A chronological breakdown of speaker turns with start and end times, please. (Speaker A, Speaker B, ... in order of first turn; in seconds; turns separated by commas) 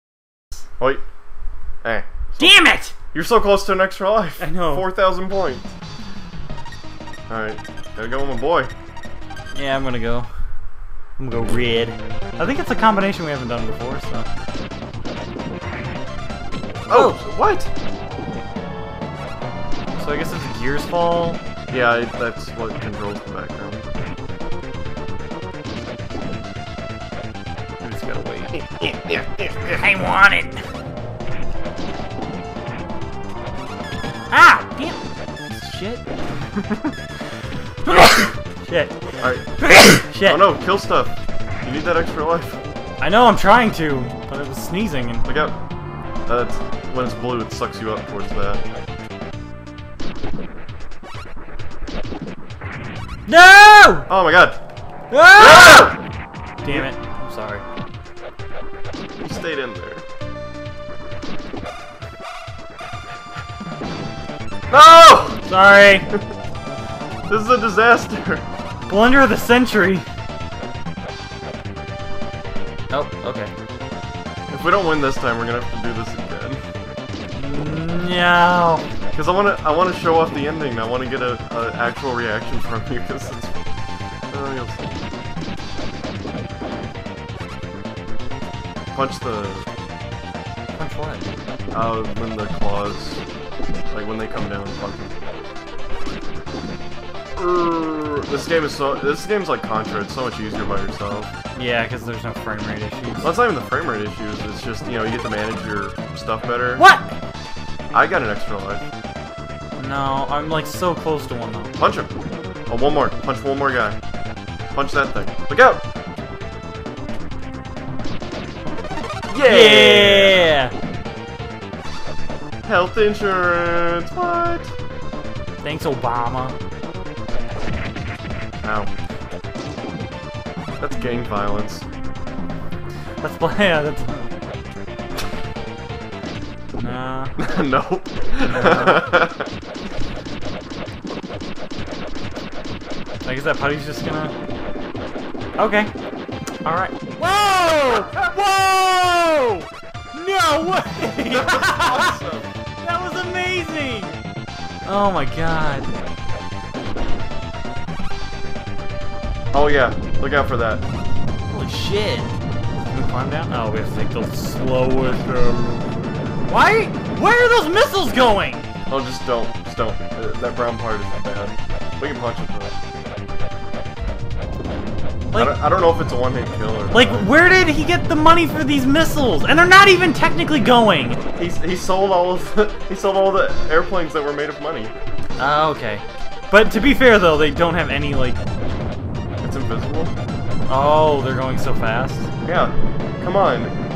Speaker A: 0.8-1.0, Speaker A: 1.8-2.6, Speaker B: 2.4-2.9, Speaker A: 3.1-5.7, Speaker B: 4.4-4.9, Speaker A: 7.3-8.7, Speaker B: 9.5-10.3, Speaker B: 11.2-14.3, Speaker B: 16.9-17.2, Speaker A: 16.9-17.7, Speaker B: 19.9-21.4, Speaker A: 21.7-23.9, Speaker B: 27.8-28.6, Speaker B: 29.7-30.6, Speaker B: 34.3-36.0, Speaker B: 37.9-40.5, Speaker A: 39.2-39.5, Speaker A: 40.1-42.6, Speaker B: 43.0-45.3, Speaker A: 45.2-45.6, Speaker A: 46.3-48.6, Speaker B: 53.3-54.1, Speaker A: 54.1-54.6, Speaker B: 55.1-55.9, Speaker A: 55.4-56.0, Speaker B: 56.6-57.6, Speaker A: 59.2-60.0, Speaker A: 64.7-65.4, Speaker B: 65.4-66.1, Speaker A: 67.3-68.4, Speaker B: 68.9-70.1, Speaker B: 72.9-73.5, Speaker A: 74.5-76.6, Speaker B: 77.3-78.8, Speaker A: 79.1-83.5, Speaker A: 84.3-85.0, Speaker A: 88.9-89.7, Speaker B: 90.8-91.3, Speaker A: 91.7-93.2, Speaker A: 93.9-95.1, Speaker A: 97.4-101.3, Speaker B: 101.5-103.3, Speaker A: 103.2-106.9, Speaker B: 106.8-107.1, Speaker A: 107.9-108.8, Speaker B: 109.8-111.8, Speaker A: 111.8-112.1, Speaker A: 112.7-114.0, Speaker A: 114.7-115.8, Speaker A: 119.3-120.5, Speaker B: 119.4-120.7, Speaker A: 122.6-124.7, Speaker B: 125.6-126.6, Speaker A: 128.6-128.9, Speaker A: 130.8-131.8, Speaker B: 133.2-134.3, Speaker B: 136.8-137.4, Speaker A: 137.4-139.5, Speaker B: 138.5-139.1, Speaker B: 143.2-144.3, Speaker B: 145.6-145.9, Speaker B: 146.6-152.2, Speaker A: 151.3-152.5, Speaker B: 152.8-154.1, Speaker B: 154.8-155.9, Speaker A: 159.5-160.8, Speaker B: 161.5-162.3, Speaker B: 162.9-165.3, Speaker A: 165.1-166.3, Speaker B: 166.4-168.7, Speaker A: 168.9-172.7, Speaker B: 175.3-175.6, Speaker A: 175.3-177.3, Speaker B: 176.9-181.2, Speaker A: 181.4-184.9, Speaker B: 185.4-188.4, Speaker A: 189.4-190.1, Speaker B: 190.7-192.3, Speaker A: 192.4-193.7